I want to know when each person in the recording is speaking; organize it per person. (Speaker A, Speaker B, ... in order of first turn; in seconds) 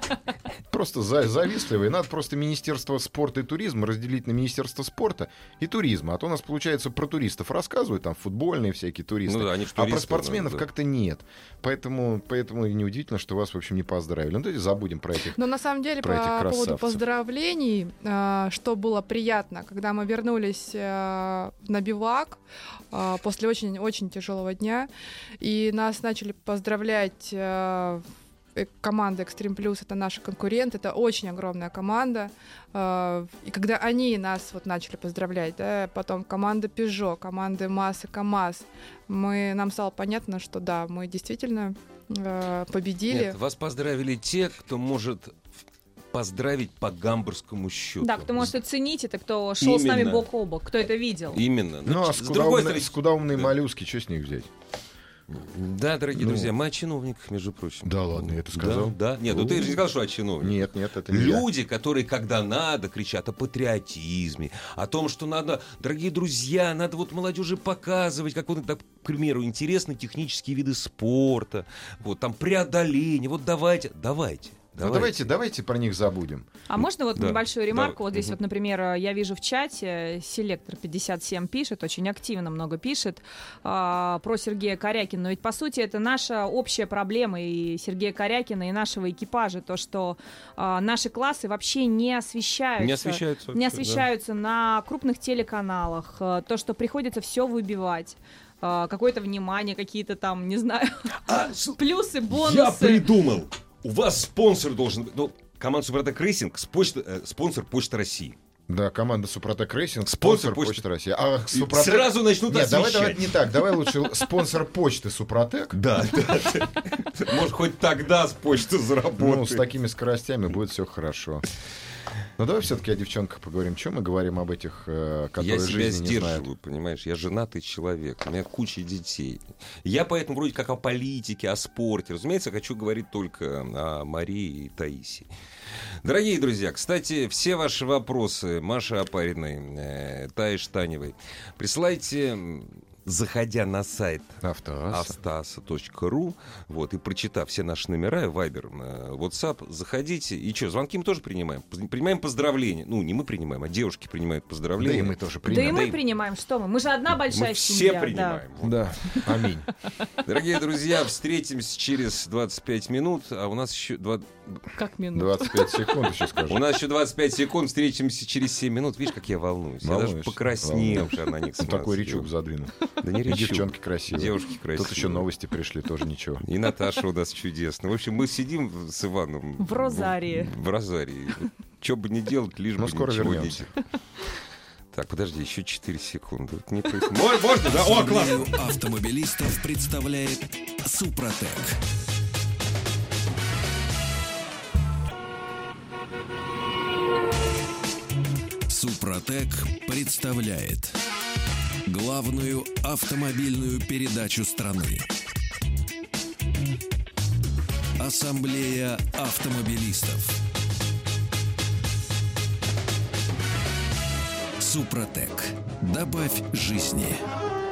Speaker A: 0.7-15.4, 16.0-17.0, 51.9-54.5, 56.1-56.5, 57.8-59.8, 60.4-61.5, 74.8-76.5, 108.7-115.8, 119.2-121.4, 122.4-126.5, 144.4-145.1, 154.8-155.9, 158.6-159.7, 165.1-166.6, 169.8-176.4, 182.8-183.7
Speaker B: 9.2-10.6, 43.1-45.4, 46.1-48.5, 49.6-50.2, 51.3-53.5, 55.3-75.2, 77.2-78.4, 92.8-94.0, 101.2-108.3, 110.1-110.8, 111.5-114.2, 115.7-119.6, 125.4-135.3, 136.0-156.0, 157.2-158.8, 160.2-164.7, 166.5-172.3, 173.0-175.2, 176.4-183.7, 184.9-188.5
Speaker C: 15.3-22.4, 22.9-24.9, 25.4-28.0, 28.6-43.4
Speaker D: 48.0-51.4, 76.7-101.2, 101.8-103.0, 155.4-158.4, 164.8-165.8, 179.6-180.5
Speaker E: 187.6-191.8, 198.7-201.0, 201.9-205.1, 208.0-210.4, 214.6-217.2